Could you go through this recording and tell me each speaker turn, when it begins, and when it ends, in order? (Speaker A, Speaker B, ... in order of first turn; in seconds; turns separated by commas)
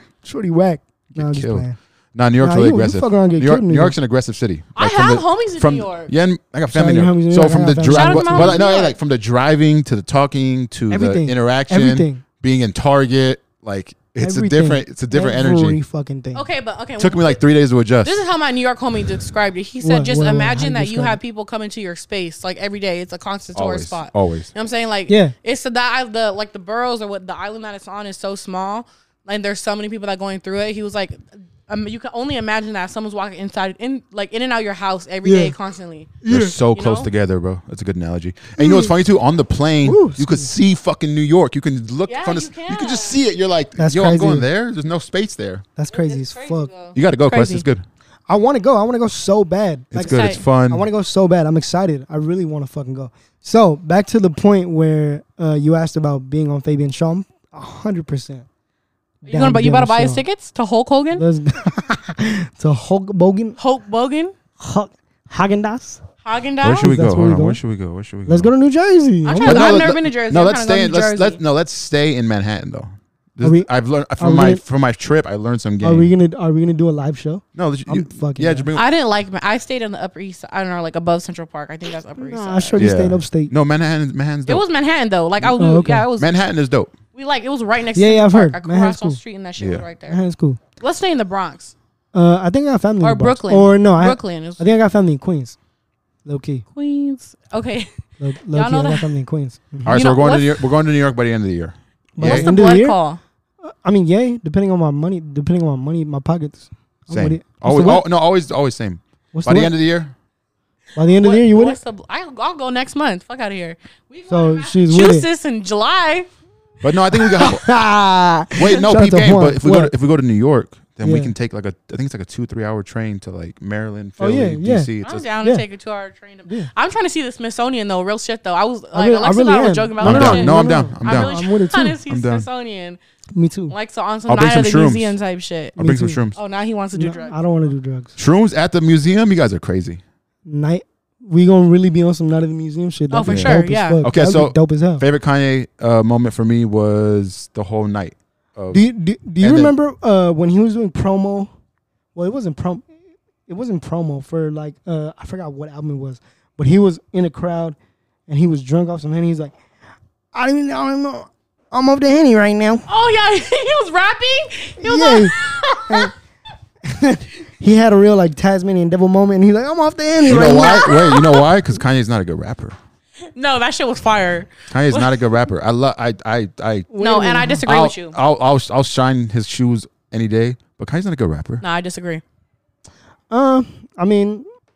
Speaker A: 0.2-1.8, Speaker B: 1.1-15.8, Speaker A: 2.4-3.9, Speaker C: 4.8-6.1, Speaker A: 6.7-8.6, Speaker C: 7.9-9.0, Speaker A: 10.9-12.2, Speaker A: 14.2-16.4, Speaker C: 16.3-17.4, Speaker B: 17.0-18.2, Speaker C: 18.0-36.2, Speaker A: 19.8-21.2, Speaker B: 23.5-24.5, Speaker A: 25.1-25.3, Speaker A: 35.2-35.5, Speaker A: 36.2-36.5, Speaker B: 36.3-45.6, Speaker C: 36.7-37.1, Speaker A: 38.6-38.9, Speaker A: 39.8-40.5, Speaker C: 42.1-43.2, Speaker A: 43.8-44.5, Speaker A: 45.8-46.7, Speaker C: 45.9-47.6, Speaker B: 46.9-47.8, Speaker A: 48.3-58.5, Speaker B: 49.9-50.9, Speaker C: 50.0-50.4, Speaker A: 59.2-60.2, Speaker C: 59.2-61.2, Speaker A: 61.1-63.6, Speaker C: 63.6-64.3, Speaker A: 64.6-66.0, Speaker C: 66.2-66.9, Speaker B: 66.6-68.5, Speaker A: 66.8-67.6, Speaker A: 68.2-69.8, Speaker C: 69.2-71.4, Speaker B: 69.4-76.1, Speaker A: 73.4-74.6, Speaker A: 75.8-78.7, Speaker B: 77.5-78.9, Speaker C: 78.7-82.8, Speaker A: 82.2-83.5, Speaker B: 82.8-84.6, Speaker C: 84.5-86.4, Speaker A: 85.5-86.0, Speaker B: 86.2-86.9, Speaker C: 87.1-90.2, Speaker A: 87.9-89.2, Speaker B: 89.6-89.9, Speaker A: 90.1-90.6, Speaker C: 90.8-91.7, Speaker A: 92.1-95.5, Speaker C: 93.0-94.6, Speaker A: 96.2-96.6, Speaker C: 96.8-97.9, Speaker A: 98.2-100.0, Speaker C: 98.5-99.1, Speaker B: 99.8-102.5, Speaker C: 99.9-100.6, Speaker A: 102.2-103.0, Speaker C: 102.2-103.2, Speaker A: 103.6-108.0, Speaker B: 107.1-110.1, Speaker A: 109.3-109.7, Speaker A: 111.0-111.8, Speaker C: 111.0-116.3, Speaker A: 114.3-115.3, Speaker B: 116.8-117.7, Speaker A: 117.1-119.9, Speaker B: 118.5-125.3, Speaker A: 121.0-121.3, Speaker A: 124.2-124.9, Speaker C: 125.0-133.0, Speaker A: 128.9-132.0, Speaker B: 130.0-131.4, Speaker B: 132.1-132.4, Speaker A: 133.3-133.7, Speaker C: 133.7-135.8, Speaker B: 134.3-135.2, Speaker A: 135.8-136.2, Speaker B: 135.8-136.4, Speaker C: 136.3-137.3, Speaker A: 136.9-138.2, Speaker B: 138.2-140.0, Speaker A: 140.4-145.0, Speaker C: 143.1-144.0, Speaker B: 143.2-148.8, Speaker A: 148.7-151.5, Speaker B: 149.4-149.7, Speaker A: 152.1-152.9, Speaker A: 153.5-159.5, Speaker A: 160.3-162.8, Speaker C: 162.9-166.1, Speaker A: 164.8-166.1, Speaker A: 166.8-170.9, Speaker B: 170.2-172.8, Speaker C: 170.2-171.5, Speaker C: 173.3-175.2, Speaker B: 174.7-176.9, Speaker A: 176.9-177.6, Speaker C: 177.0-178.2, Speaker B: 177.6-181.6, Speaker C: 181.6-182.2, Speaker A: 183.3-184.4